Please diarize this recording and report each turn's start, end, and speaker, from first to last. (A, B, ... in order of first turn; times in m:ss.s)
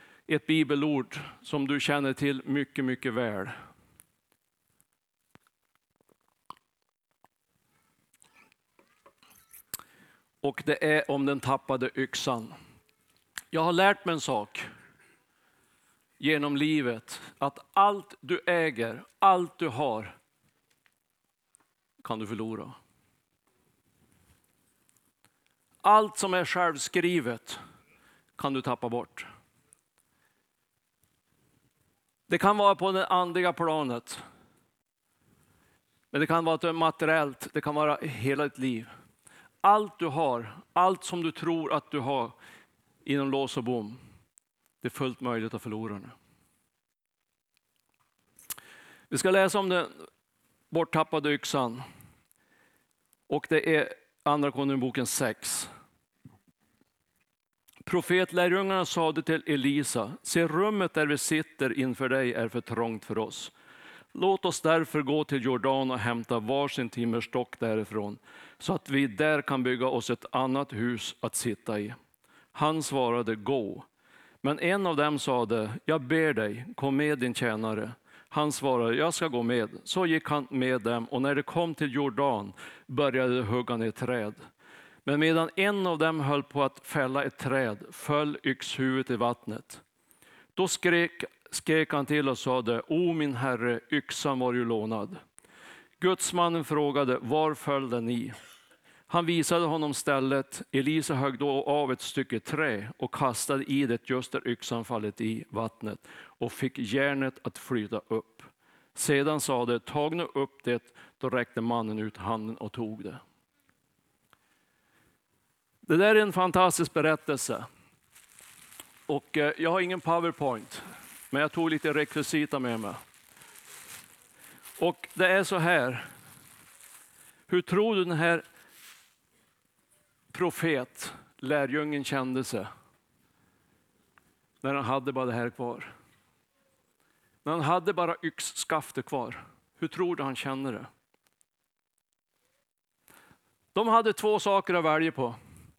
0:00.3-0:03.6 A
0:10.4-0:12.5 A
0:13.5-0:14.6 A
0:16.2-0:20.2 A
0:22.0-0:22.8 A
0:25.8-0:27.6 A
0:28.4-0:29.3 A
0:32.3-0:34.2 A
0:36.1-0:38.9 A
0:39.6-0:42.4 A
0:43.0-0:44.0 A
0:44.8-0:46.1 A
0:49.1-0:49.9 A
0:50.7-0:51.8 A
0:53.3-0:55.7 A
0:57.8-1:03.5 A
1:04.1-1:12.0 A
1:12.5-1:13.8 A
1:14.4-1:24.4 A
1:25.0-1:29.8 A
1:30.6-1:35.2 A
1:36.0-1:38.3 A
1:39.1-1:53.2 A
1:55.9-1:57.7 A
1:59.1-2:03.0 A
2:04.8-2:06.1 A
2:07.5-2:08.4 A
2:10.3-2:12.7 A
2:14.6-2:15.9 A
2:17.4-2:20.9 A
2:23.7-2:25.4 A